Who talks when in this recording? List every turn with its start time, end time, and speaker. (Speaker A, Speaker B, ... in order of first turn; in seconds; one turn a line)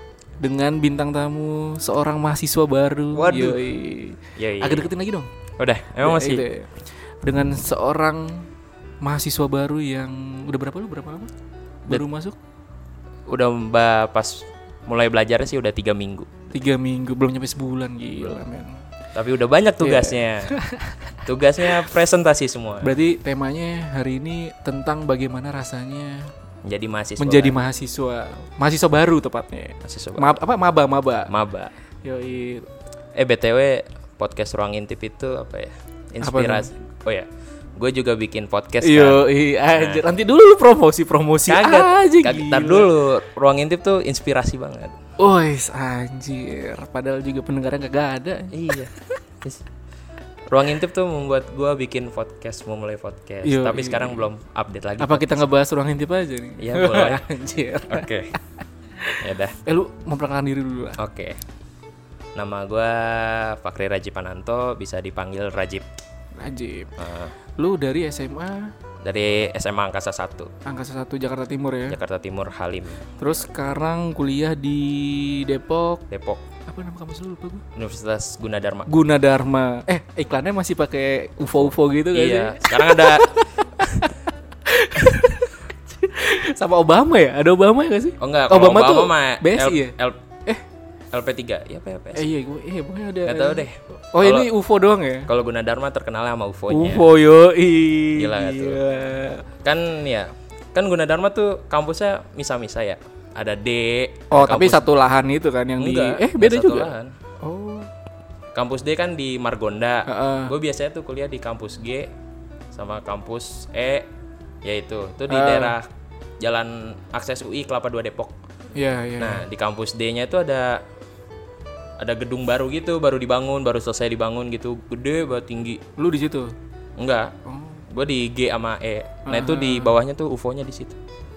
Speaker A: 0.4-5.3
Speaker B: 3.1-3.6
Speaker B: 4.4-4.9
Speaker B: 5.6-6.4
Speaker A: 6.0-8.5
Speaker A: 9.0-11.3
Speaker A: 11.9-12.3
Speaker B: 13.3-16.3
Speaker A: 16.5-18.8
Speaker B: 19.1-20.6
Speaker A: 19.8-21.2
Speaker B: 21.2-22.9
Speaker A: 22.8-26.3
Speaker B: 26.6-27.6
Speaker A: 27.2-31.3
Speaker B: 29.8-30.4
Speaker B: 31.3-31.7
Speaker A: 32.0-32.7
Speaker B: 33.1-40.0
Speaker A: 36.2-36.7
Speaker A: 38.8-42.9
Speaker B: 41.5-44.9
Speaker A: 45.2-48.9
Speaker B: 48.5-49.6
Speaker B: 50.5-55.4
Speaker A: 53.4-54.2
Speaker A: 55.0-58.1
Speaker B: 56.6-57.3
Speaker B: 57.9-58.3
Speaker A: 59.0-61.0
Speaker B: 59.2-59.5
Speaker B: 61.0-61.4
Speaker B: 62.4-65.8
Speaker A: 66.4-66.9
Speaker B: 67.0-67.3
Speaker A: 67.6-68.7
Speaker B: 69.0-70.5
Speaker A: 70.7-72.0
Speaker B: 71.9-73.1
Speaker A: 73.2-76.0
Speaker B: 76.1-76.4
Speaker A: 76.7-77.6
Speaker B: 77.7-78.9
Speaker A: 78.9-89.9
Speaker B: 82.1-83.3
Speaker B: 88.2-90.2
Speaker B: 91.1-92.3
Speaker A: 92.1-95.3
Speaker B: 93.2-94.5
Speaker B: 95.3-97.1
Speaker A: 96.7-99.5
Speaker B: 98.1-98.8
Speaker B: 99.6-104.8
Speaker A: 104.3-106.9
Speaker B: 105.8-107.1
Speaker A: 107.4-107.9
Speaker B: 108.5-112.1
Speaker A: 110.1-110.5
Speaker B: 112.7-114.1
Speaker B: 114.6-115.9
Speaker A: 115.3-115.8
Speaker B: 116.4-118.3
Speaker A: 118.8-119.4
Speaker B: 119.2-120.8
Speaker B: 122.0-125.8
Speaker A: 126.0-126.5
Speaker B: 127.0-127.3
Speaker A: 127.5-127.8
Speaker B: 127.9-131.0
Speaker A: 129.2-130.0